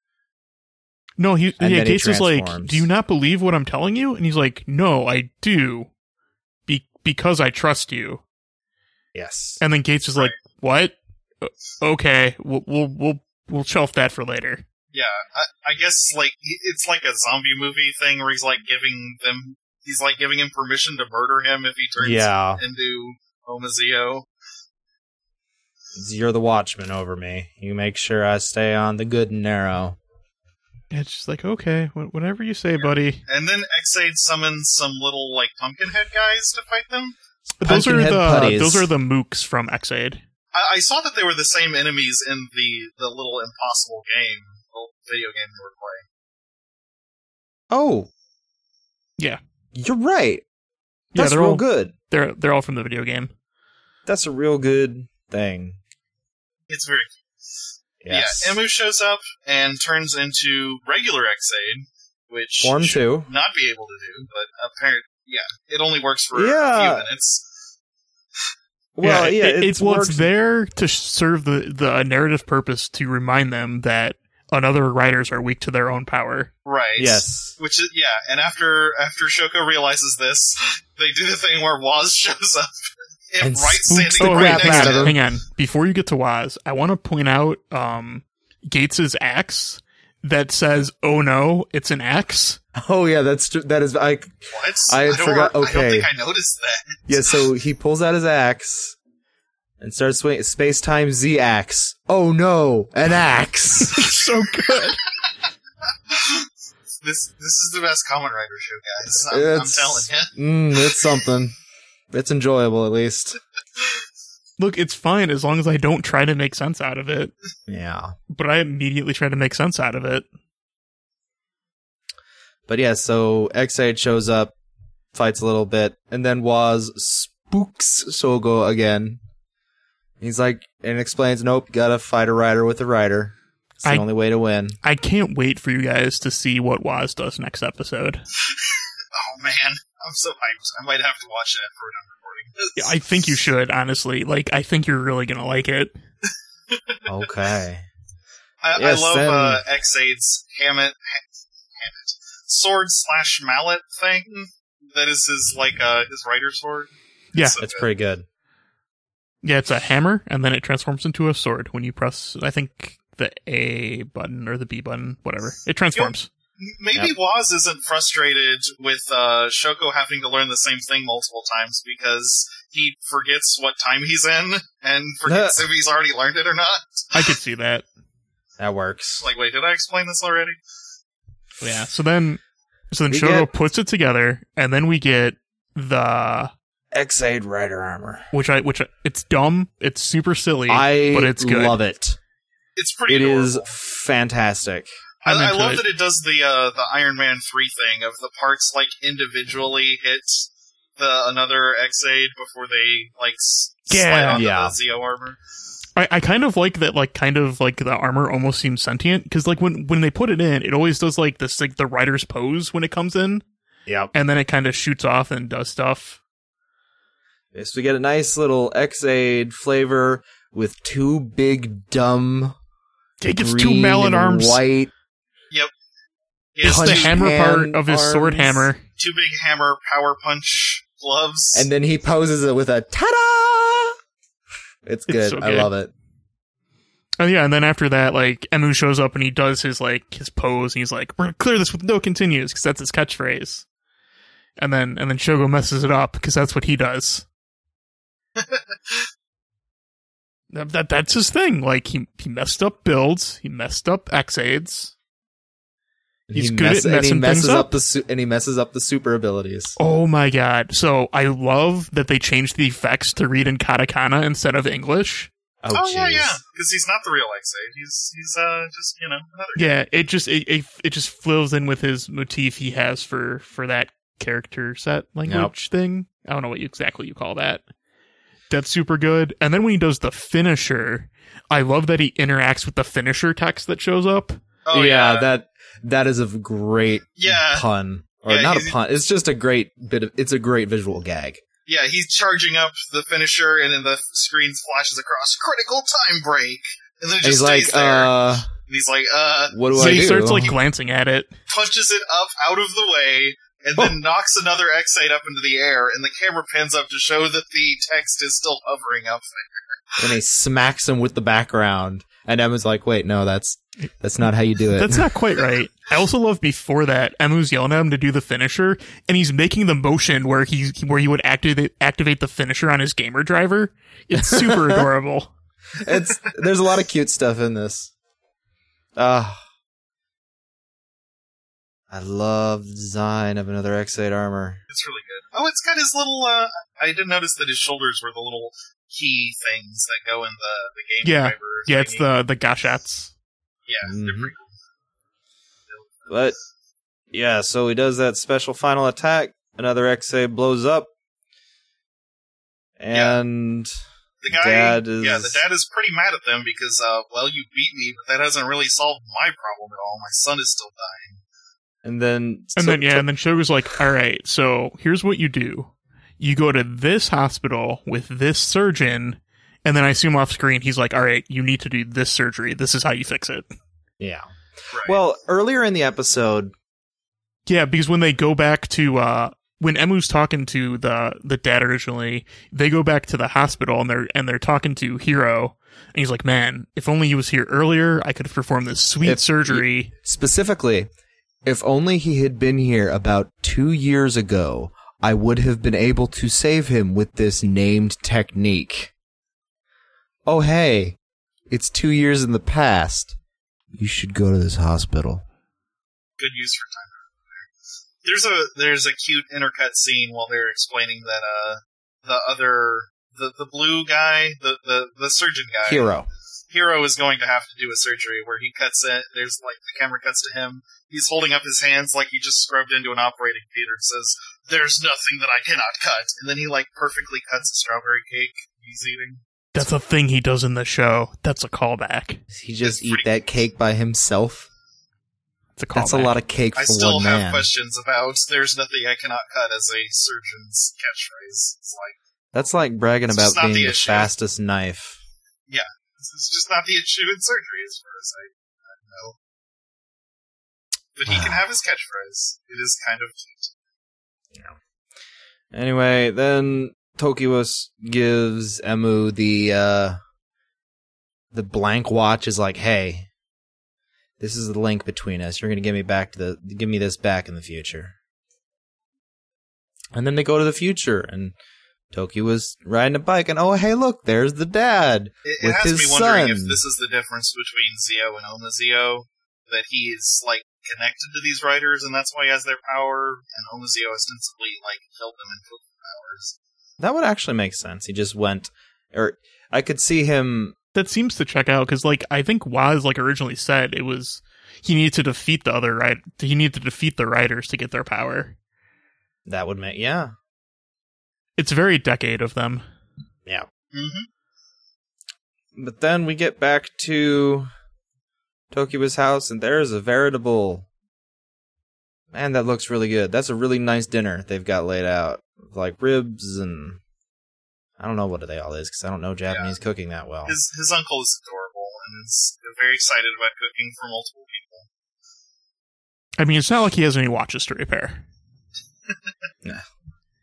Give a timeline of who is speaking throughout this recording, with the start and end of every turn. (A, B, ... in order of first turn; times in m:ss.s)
0:01.2-0:05.9 A
0:01.6-0:02.8 B
0:06.7-0:08.2 A
0:09.1-0:09.6 B
0:09.6-0:14.6 A
0:14.9-0:24.3 C
0:22.0-0:22.6 B
0:25.9-0:30.0 B
0:30.9-0:33.2 A
0:32.8-0:37.2 C
0:37.6-0:40.2 A
0:37.6-0:38.9 B
0:40.5-0:46.0 C
0:47.7-0:48.1 B
0:49.7-0:50.4 B
0:51.1-0:53.3 A
0:51.1-0:51.9 B
0:54.0-0:55.8 B
0:56.7-0:57.2 C
0:58.0-0:58.6 B
0:58.1-1:07.5 C
1:02.6-1:03.3 B
1:06.3-1:07.1 B
1:09.0-1:10.3 B
1:09.0-1:16.5 A
1:16.6-1:22.7 C
1:17.0-1:17.6 B
1:23.3-1:25.2 C
1:23.4-1:25.2 B
1:24.1-1:32.6 A
1:32.7-1:34.3 B
1:34.5-1:37.4 C
1:34.9-1:36.1 B
1:37.1-1:39.0 B
1:39.8-1:44.2 B
1:43.8-1:45.0 A
1:46.1-1:46.5 C
1:47.0-1:51.0 C
1:49.2-1:51.5 B
1:52.1-1:53.4 B
1:54.6-1:57.3 A
1:57.7-1:58.1 B
1:58.3-2:00.2 A
2:02.7-2:04.5 B
2:05.1-2:09.2 B
2:10.2-2:14.8 B
2:14.8-2:18.2 A
2:19.1-2:23.0 C
2:22.8-2:26.0 A
2:26.7-2:27.0 C
2:27.1-2:27.8 B
2:28.6-2:37.9 C
2:28.7-2:29.6 B
2:37.6-2:38.2 B
2:39.4-2:46.3 A
2:45.9-2:57.2 C
2:55.2-2:55.6 B
2:57.1-2:57.8 A
2:58.6-2:59.3 B
2:59.2-3:00.6 C
3:01.6-3:06.5 A
3:03.1-3:03.5 B
3:06.9-3:08.3 B
3:08.3-3:11.8 A
3:10.7-3:12.2 B
3:12.8-3:13.7 C
3:13.1-3:14.9 B
3:15.2-3:15.8 A
3:15.2-3:25.4 C
3:23.9-3:24.4 A
3:24.3-3:24.7 B
3:26.0-3:33.4 A
3:33.9-3:34.1 B
3:34.1-3:36.2 A
3:37.5-3:42.6 B
3:43.2-3:44.6 A
3:43.3-3:44.9 B
3:46.6-3:47.2 C
3:46.6-3:48.8 A
3:46.6-3:48.7 B
3:49.0-3:51.7 C
3:51.5-3:54.0 B
3:54.8-3:55.9 B
3:55.1-3:55.7 A
3:57.2-4:03.6 A
4:04.6-4:07.2 A
4:08.4-4:09.0 C
4:10.5-4:14.9 A
4:16.3-4:19.8 B
4:16.3-4:17.7 A
4:19.8-4:25.3 A
4:25.6-4:26.4 B
4:25.7-4:29.7 C
4:29.6-4:37.6 A
4:35.2-4:35.5 B
4:38.5-4:44.4 A
4:44.6-4:45.3 C
4:44.7-4:51.4 B
4:47.2-4:47.6 C
4:48.2-4:48.8 C
4:51.7-5:00.5 C
4:57.2-4:58.5 B
4:59.5-5:00.5 B
4:59.8-5:01.4 A
5:01.5-5:10.0 C
5:10.0-5:15.1 B
5:14.7-5:25.3 A
5:24.1-5:24.8 B
5:25.8-5:27.9 B
5:29.0-5:29.4 B
5:31.9-5:34.6 B
5:34.7-5:42.1 C
5:41.0-5:43.1 A
5:43.6-5:44.5 C
5:43.8-5:44.3 B
5:45.7-5:46.1 C
5:46.1-5:46.3 B
5:47.1-5:50.9 B
5:52.8-5:53.7 B
5:52.9-5:53.2 C
5:54.2-6:01.2 C
5:54.3-5:55.4 B
6:01.8-6:03.0 B
6:02.6-6:13.5 A
6:14.0-6:16.5 B
6:17.5-6:29.9 A
6:29.0-6:30.9 B
6:31.4-6:38.9 B
6:40.2-6:41.0 B
6:41.5-6:43.1 B
6:43.7-6:45.2 B
6:46.2-6:47.4 C
6:48.0-6:55.9 C
6:55.6-6:56.1 B
6:56.5-7:09.2 C
7:09.5-7:12.2 A
7:12.3-7:14.5 B
7:12.6-7:13.1 C
7:15.6-7:16.1 A
7:15.7-7:17.5 B
7:16.6-7:22.0 C
7:22.3-7:25.0 B
7:23.1-7:24.1 C
7:25.5-7:29.2 C
7:31.0-7:33.5 C
7:31.1-7:31.4 B
7:35.5-7:40.0 B
7:41.3-7:43.1 B
7:44.2-7:47.9 B
7:49.9-7:51.3 B
7:51.9-7:56.6 B
7:55.2-8:06.3 C
8:06.8-8:10.5 B
8:10.7-8:18.4 A
8:19.3-8:20.1 B
8:21.4-8:22.6 A
8:23.7-8:24.1 C
8:25.6-8:27.5 B
8:28.5-8:30.7 B
8:32.1-8:36.8 B
8:37.8-8:40.4 B
8:40.2-8:44.7 C
8:46.2-8:48.0 A